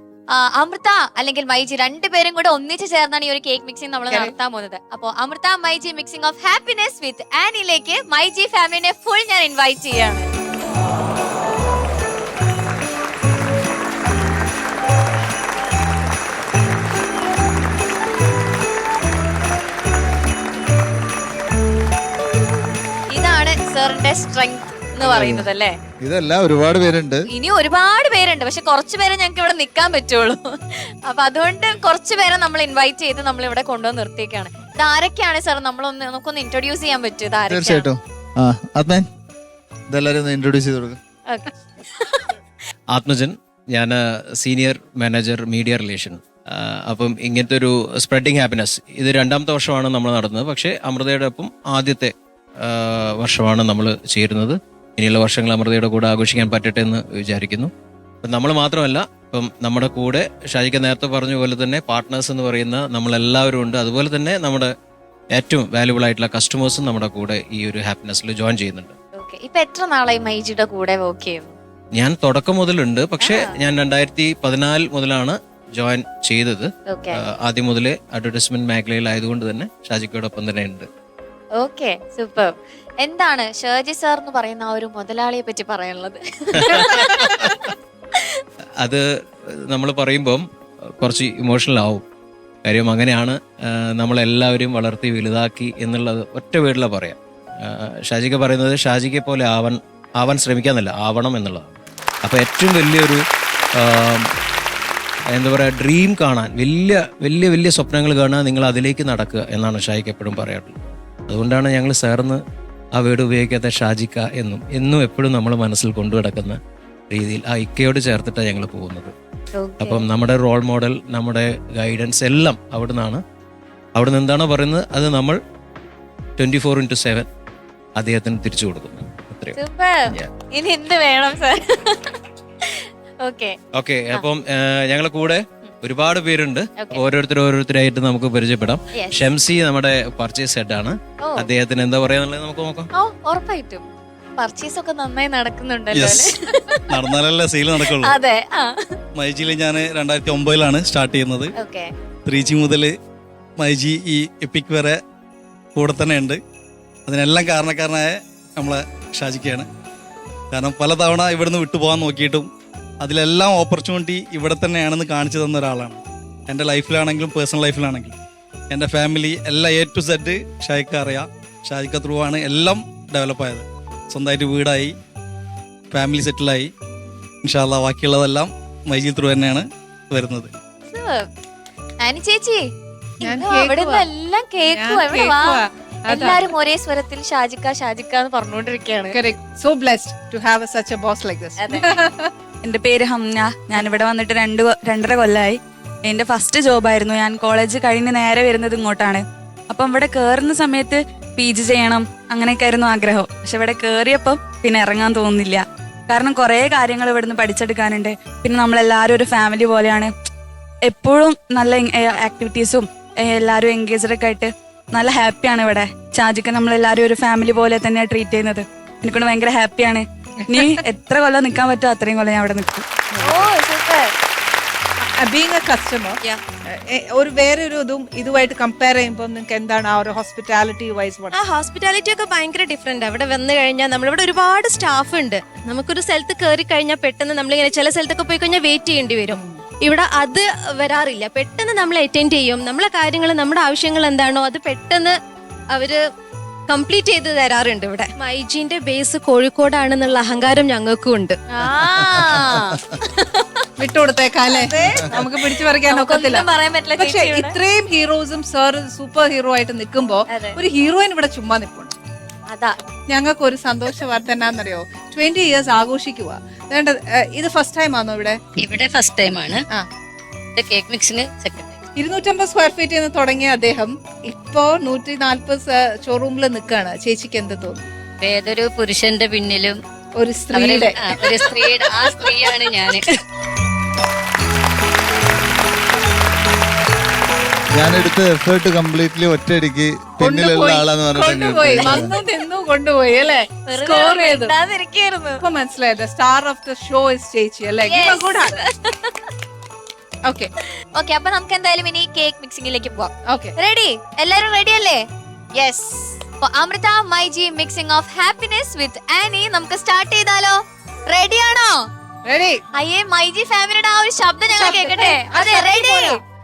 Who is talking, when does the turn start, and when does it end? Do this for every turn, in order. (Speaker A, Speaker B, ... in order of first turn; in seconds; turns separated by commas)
Speaker A: 0.3-10.3, Speaker A: 23.1-25.8, Speaker B: 25.0-25.5, Speaker B: 26.0-27.2, Speaker A: 27.3-37.9, Speaker B: 37.5-39.0, Speaker B: 39.9-41.0, Speaker A: 41.3-42.3, Speaker C: 42.9-57.7, Speaker C: 58.2-64.7, Speaker C: 65.3-68.9, Speaker A: 69.2-71.5, Speaker C: 71.9-80.9, Speaker A: 73.2-73.6, Speaker A: 76.9-77.2, Speaker A: 81.5-88.4, Speaker C: 86.6-87.5, Speaker D: 86.7-87.0, Speaker C: 88.8-90.4, Speaker C: 91.0-92.0, Speaker C: 92.6-103.2, Speaker C: 103.7-104.3, Speaker C: 105.3-112.4, Speaker C: 112.9-116.6, Speaker C: 117.1-119.1, Speaker A: 119.5-120.0, Speaker C: 119.8-123.2, Speaker C: 123.9-125.4, Speaker C: 126.4-127.3, Speaker C: 128.0-129.6, Speaker A: 129.5-133.6, Speaker C: 133.7-142.9, Speaker A: 136.8-137.0, Speaker A: 138.9-139.2, Speaker A: 141.2-141.5, Speaker A: 142.9-143.8, Speaker A: 144.4-146.9, Speaker E: 145.9-146.3, Speaker E: 146.9-148.1, Speaker A: 147.9-149.0, Speaker E: 149.2-151.5, Speaker A: 151.6-151.9, Speaker E: 152.3-152.9, Speaker E: 153.6-155.0, Speaker E: 155.7-156.4, Speaker E: 157.1-159.7, Speaker E: 160.5-162.5, Speaker E: 163.0-168.2, Speaker E: 168.7-174.9, Speaker E: 175.9-176.7, Speaker E: 177.4-180.5, Speaker A: 180.9-181.3, Speaker A: 182.0-182.7, Speaker A: 183.2-189.2, Speaker D: 183.2-184.1, Speaker D: 184.6-186.5, Speaker D: 189.1-192.3, Speaker A: 191.6-191.9, Speaker F: 192.6-210.1, Speaker F: 210.9-222.8, Speaker D: 220.5-220.8, Speaker D: 223.1-223.5, Speaker A: 223.2-224.1, Speaker D: 225.0-231.3, Speaker G: 231.3-245.2, Speaker D: 239.3-239.6, Speaker G: 245.7-246.0, Speaker G: 246.7-251.4, Speaker A: 251.5-253.5, Speaker B: 251.8-253.0, Speaker D: 253.8-256.4, Speaker A: 254.5-257.5, Speaker D: 257.0-261.9, Speaker A: 260.3-260.6, Speaker A: 262.5-262.8, Speaker D: 263.1-268.4, Speaker H: 268.6-269.6, Speaker H: 270.6-271.8, Speaker D: 271.9-277.9, Speaker H: 278.2-279.8, Speaker D: 280.1-281.1, Speaker H: 280.5-283.1, Speaker B: 287.7-292.1, Speaker D: 290.2-294.5, Speaker A: 293.7-295.4, Speaker D: 295.4-298.5, Speaker A: 297.9-299.2, Speaker D: 300.2-300.5, Speaker A: 300.9-311.9, Speaker D: 303.3-303.5, Speaker D: 312.2-312.6, Speaker A: 312.7-316.2, Speaker D: 314.5-316.2